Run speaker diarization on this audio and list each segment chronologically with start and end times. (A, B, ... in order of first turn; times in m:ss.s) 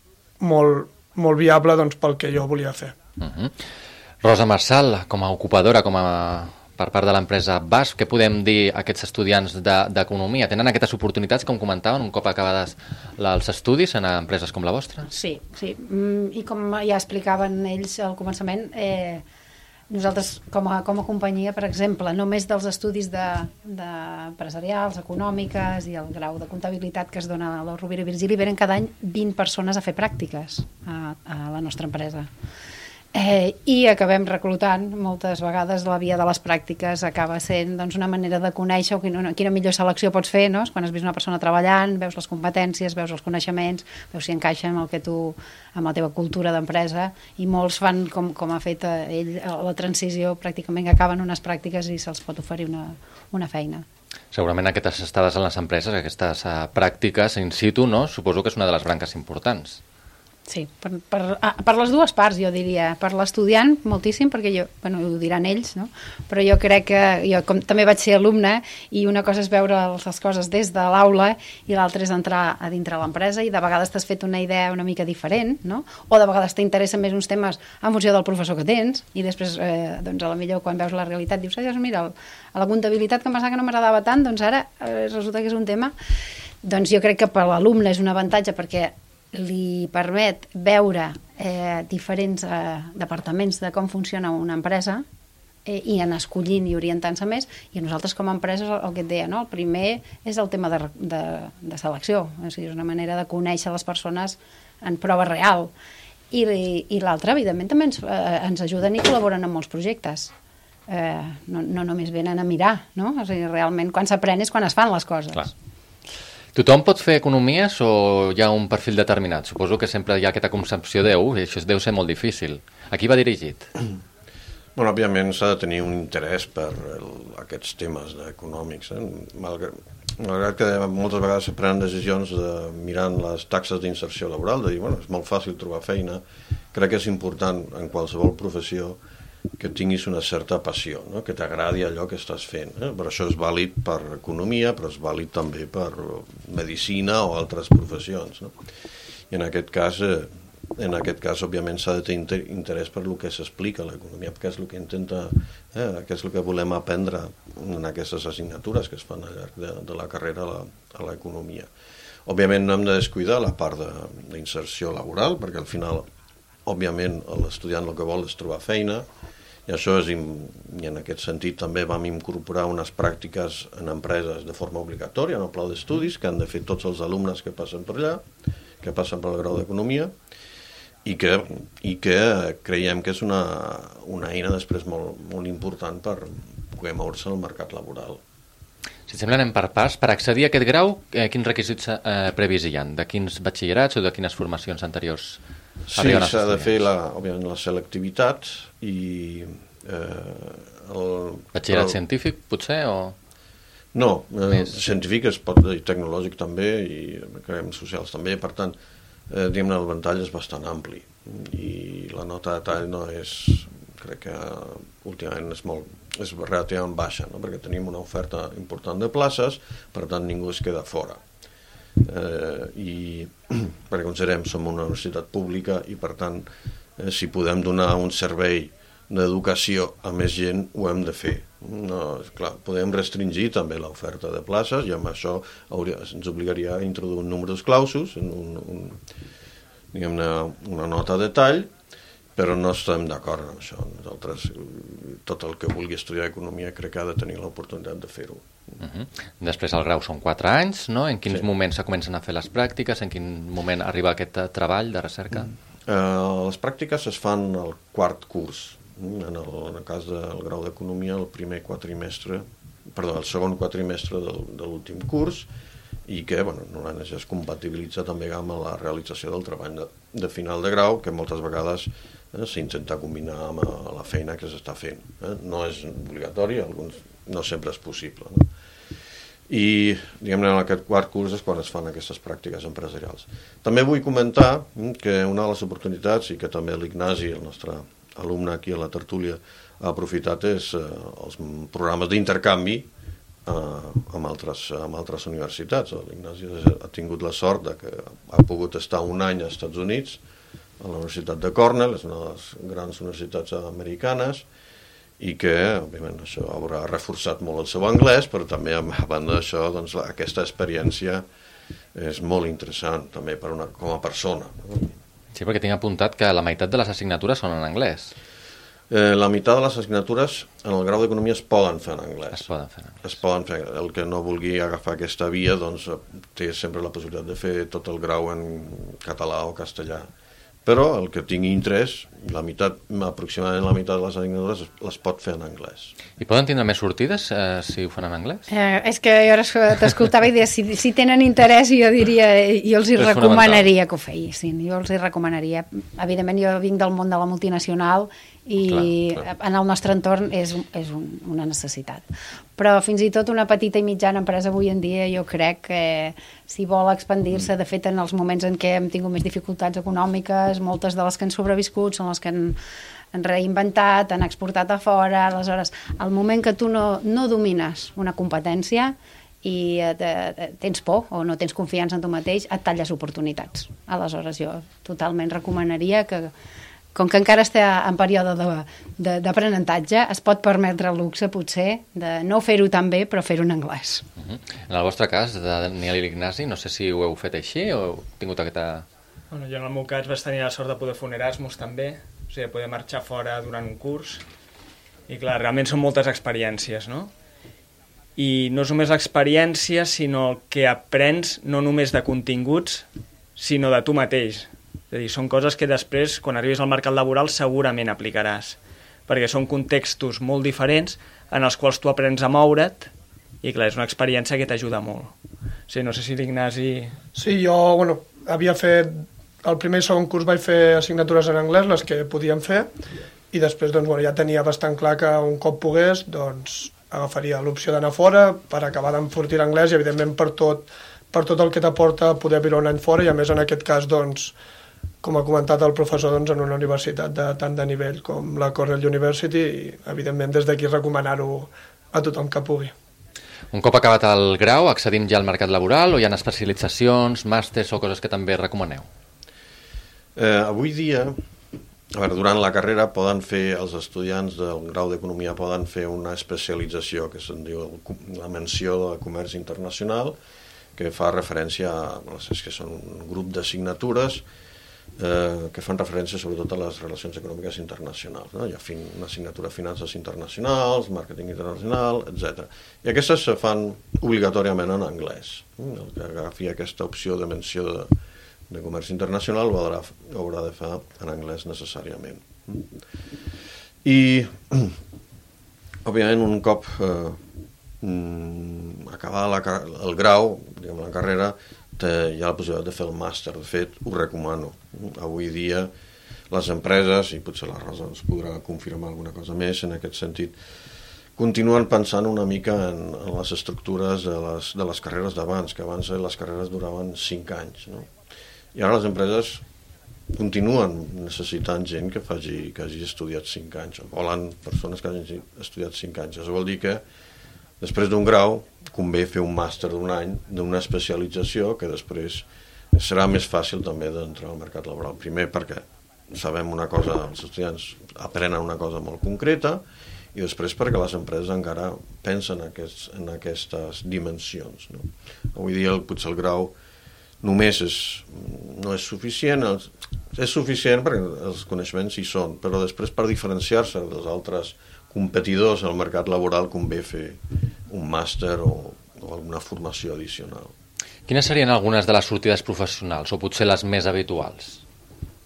0:00.4-0:03.0 A
0:03.2-0:03.5 B
0:04.2-0:15.1 B
0:15.1-0:19.2 C
0:19.9-0:32.3 C
0:33.1-0:53.9 C
0:54.3-0:59.8 B
1:00.5-1:25.9 C
1:26.6-1:35.0 C
1:35.7-1:45.7 C
1:46.3-1:50.3 C
1:50.9-1:55.5 C
1:56.5-2:03.7 B
2:04.8-2:16.2 D
2:16.7-2:19.0 D
2:19.6-2:28.6 D
2:29.3-2:41.7 D
2:42.3-2:46.1 D
2:46.7-2:49.1 D
2:49.7-2:58.2 D
2:58.8-3:00.1 D
3:01.0-3:08.2 D
3:09.1-3:15.4 B
3:15.9-3:22.0 D
3:16.0-3:16.8 B
3:21.6-3:23.2 B
3:23.9-3:28.7 D
3:29.3-3:41.2 D
3:42.0-3:46.4 D
3:47.0-3:59.0 D
3:59.9-4:01.7 D
4:02.4-4:08.5 D
4:08.8-4:15.5 B
4:15.9-4:25.5 D
4:26.1-4:38.5 D
4:39.5-4:52.9 D
4:53.4-5:00.2 D
5:00.8-5:04.4 D
5:05.2-5:11.2 D
5:11.9-5:15.0 D
5:15.3-5:18.1 B
5:18.9-5:22.5 D
5:22.4-5:23.0 B
5:23.0-5:30.1 D
5:30.6-5:35.9 D
5:36.2-5:38.5 B
5:38.5-5:52.0 C
5:43.0-5:43.7 B
5:52.6-6:02.6 C
6:03.1-6:16.3 C
6:17.0-6:24.0 C
6:24.2-6:28.9 B
6:29.3-6:34.2 E
6:35.1-6:37.1 E
6:38.2-6:52.9 E
6:53.4-6:55.1 E
6:55.7-6:57.0 E
6:57.2-7:02.7 A
7:03.3-7:14.3 A
7:15.0-7:22.7 A
7:23.5-7:28.9 B
7:30.2-7:31.2 D
7:31.9-7:40.2 D
7:40.8-7:44.2 D
7:45.0-7:57.9 D
7:58.5-8:02.7 D
8:03.8-8:04.8 D
8:05.8-8:07.2 D
8:07.8-8:15.7 D
8:16.3-8:20.3 D
8:21.2-8:27.9 D
8:28.5-8:29.4 D
8:30.1-8:36.8 D
8:37.6-8:49.6 D
8:50.1-8:56.5 D
8:57.2-9:10.5 D
9:11.1-9:14.6 B